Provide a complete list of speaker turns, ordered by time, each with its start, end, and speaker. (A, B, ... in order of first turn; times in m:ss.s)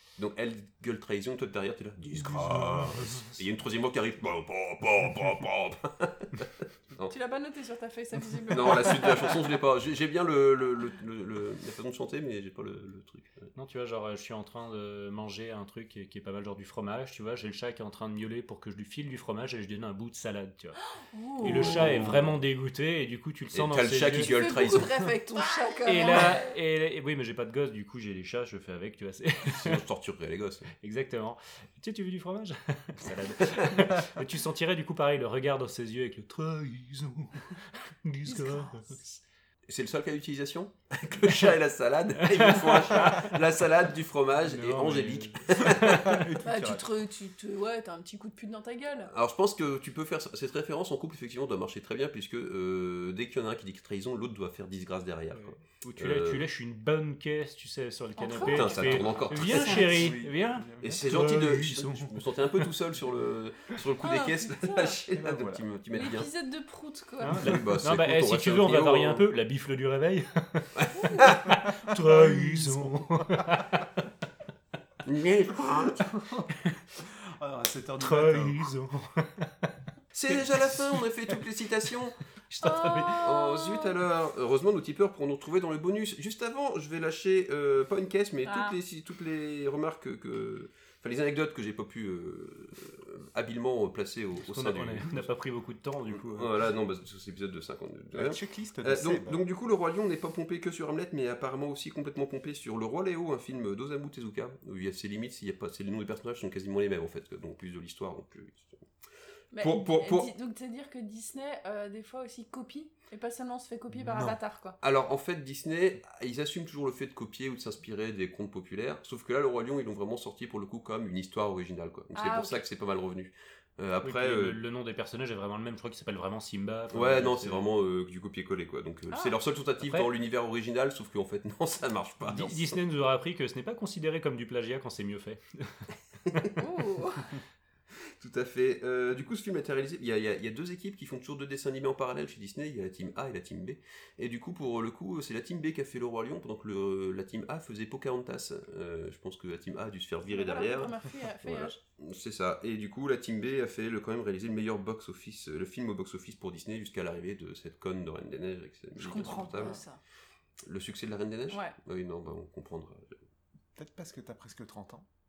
0:00.2-0:07.1 A
0:02.2-0:03.0 B
0:07.0-0:09.4 C
0:08.5-0:13.5 A
0:13.5-0:20.8 D
0:21.1-0:22.0 C
0:21.4-0:24.7 D
0:21.4-0:22.3 A
0:23.5-0:25.0 A
0:24.1-0:26.5 C
0:25.8-0:29.8 D
0:29.5-0:30.7 A
0:30.8-0:39.0 D
0:33.5-0:33.8 A
0:38.2-0:39.2 C
0:39.7-0:46.2 A
0:41.2-0:41.5 D
0:42.2-0:43.4 D
0:44.4-0:46.2 D
0:45.6-0:46.9 B
0:46.4-0:49.1 C
0:49.1-0:56.4 A
0:55.8-1:02.7 D
0:58.2-0:59.1 C
0:58.4-1:00.2 A
0:59.7-1:01.0 B
1:00.8-1:06.3 A
1:04.0-1:05.0 C
1:05.1-1:05.6 B
1:05.9-1:07.4 C
1:07.2-1:10.7 D
1:07.3-1:09.2 A
1:10.8-1:11.5 A
1:10.9-1:11.3 C
1:11.3-1:13.8 D
1:11.5-1:13.4 B
1:15.0-1:16.1 A
1:15.9-1:18.7 B
1:18.0-1:19.7 D
1:20.1-1:22.2 A
1:20.3-1:21.4 D
1:22.5-1:23.2 D
1:22.6-1:23.9 C
1:23.2-1:35.3 A
1:28.4-1:28.8 C
1:34.4-1:36.5 D
1:36.1-1:48.8 A
1:38.1-1:39.4 B
1:49.5-1:54.8 C
1:49.6-1:50.3 A
1:53.9-1:54.4 B
1:54.8-2:04.6 A
2:02.1-2:02.6 C
2:04.0-2:07.7 D
2:06.9-2:12.8 A
2:09.1-2:09.4 C
2:09.8-2:10.1 D
2:12.2-2:15.9 D
2:16.6-2:17.3 C
2:18.2-2:39.8 A
2:30.3-2:31.8 C
2:39.0-2:40.0 C
2:40.6-2:43.1 A
2:41.5-2:41.8 C
2:43.8-2:45.1 B